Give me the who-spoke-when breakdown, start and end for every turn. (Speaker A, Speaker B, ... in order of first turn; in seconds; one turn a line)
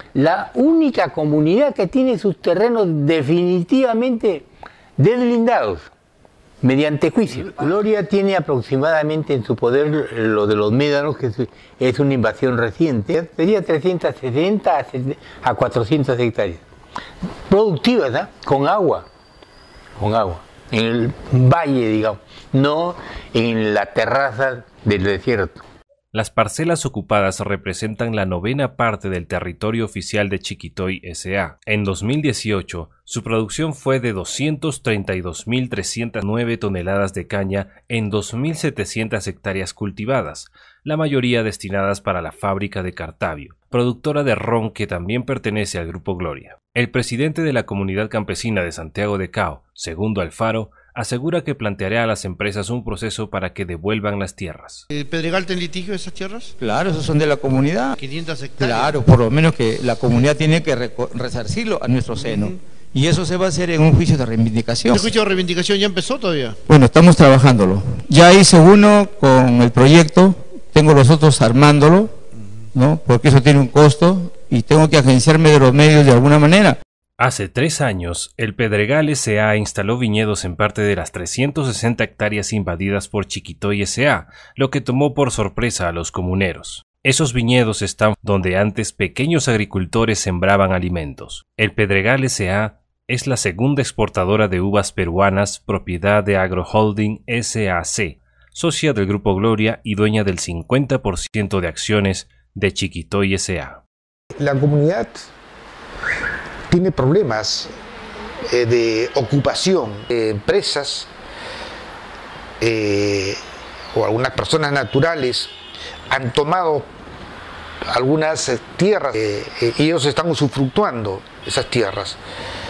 Speaker A: 0.1-5.9
Speaker A: 6.6-16.6
Speaker A: 17.5-19.1
Speaker A: 20.0-25.6
Speaker B: 26.1-54.8
Speaker C: 54.9-56.5
Speaker D: 56.6-58.0
Speaker C: 58.0-59.0
Speaker D: 58.6-65.1
Speaker C: 62.1-62.5
Speaker C: 64.9-66.6
Speaker D: 66.7-72.1
Speaker D: 72.7-76.8
Speaker B: 77.2-103.8
Speaker E: 104.4-105.3
Speaker E: 106.7-107.7
Speaker E: 108.5-111.1
Speaker E: 112.6-113.4
Speaker E: 113.9-115.5
Speaker E: 116.1-116.9
Speaker E: 117.9-122.2